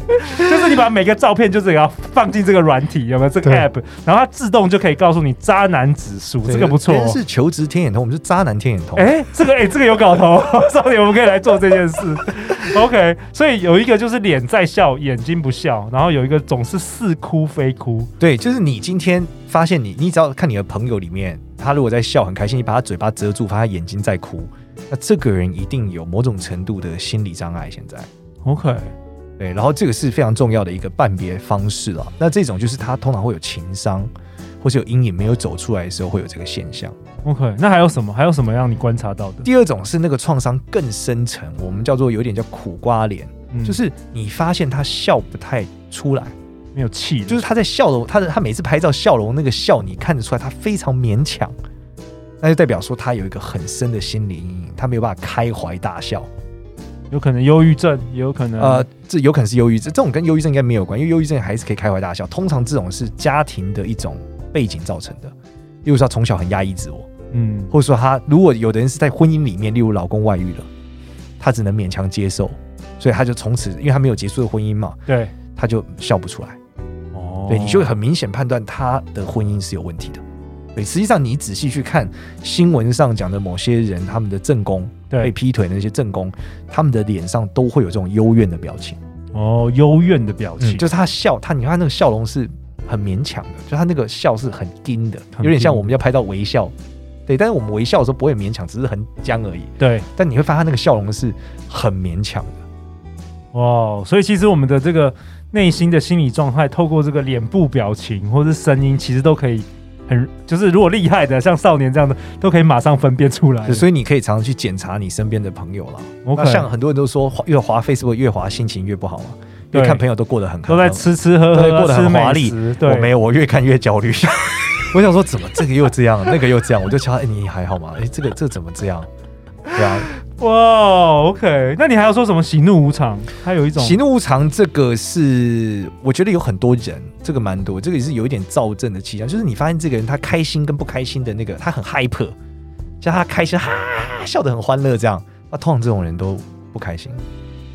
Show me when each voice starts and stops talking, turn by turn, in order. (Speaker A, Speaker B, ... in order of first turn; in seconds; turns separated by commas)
Speaker A: 0.1-7.2, Speaker B: 6.4-9.1, Speaker A: 8.9-18.1, Speaker B: 18.2-28.1, Speaker A: 28.4-28.9, Speaker B: 29.4-37.0, Speaker A: 37.2-39.5, Speaker B: 39.4-46.3, Speaker A: 43.5-43.8, Speaker A: 46.7-47.4, Speaker B: 47.3-51.5, Speaker B: 52.4-56.3, Speaker A: 57.1-58.9, Speaker B: 58.6-65.3, Speaker B: 65.8-67.1, Speaker A: 67.3-67.7, Speaker B: 67.7-70.7, Speaker B: 71.4-75.0, Speaker A: 75.1-75.3, Speaker B: 75.5-76.6, Speaker A: 77.1-77.9, Speaker B: 77.5-80.2, Speaker B: 80.7-89.0, Speaker A: 89.3-90.9, Speaker B: 90.6-96.7, Speaker A: 95.3-95.9, Speaker B: 97.3-102.6, Speaker A: 99.8-100.0, Speaker A: 103.5-113.8, Speaker B: 113.7-129.1, Speaker A: 116.2-116.7, Speaker A: 119.7-120.0, Speaker A: 120.7-123.1, Speaker B: 129.7-130.1, Speaker A: 129.8-134.0, Speaker B: 133.8-142.3, Speaker B: 143.0-147.2